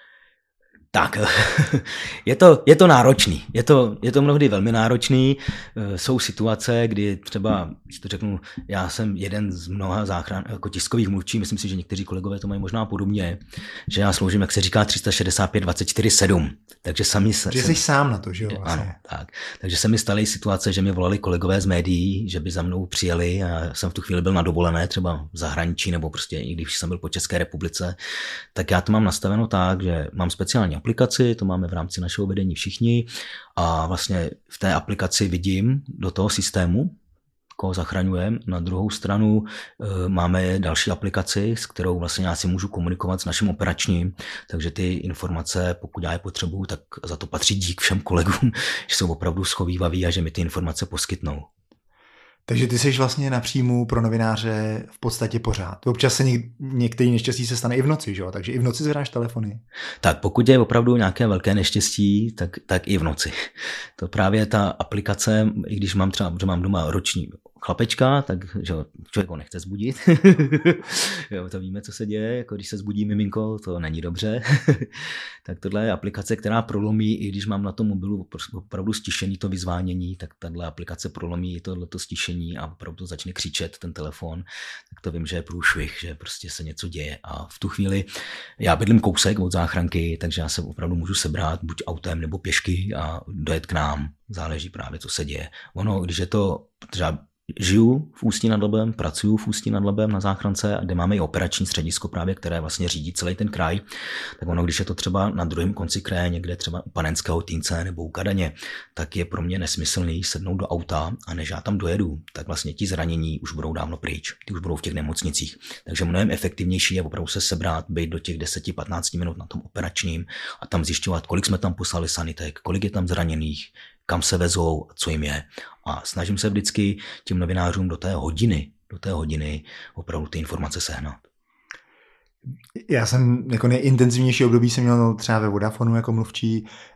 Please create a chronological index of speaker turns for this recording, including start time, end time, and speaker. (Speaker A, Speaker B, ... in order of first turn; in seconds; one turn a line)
Speaker A: 0.9-17.8
Speaker B: 17.5-19.0
Speaker A: 18.5-28.0
Speaker A: 28.5-37.0
Speaker A: 37.6-51.5
Speaker B: 52.5-59.6
Speaker A: 60.0-88.1
Speaker A: 88.6-103.8
Speaker A: 104.4-131.2
Speaker B: 132.8-136.7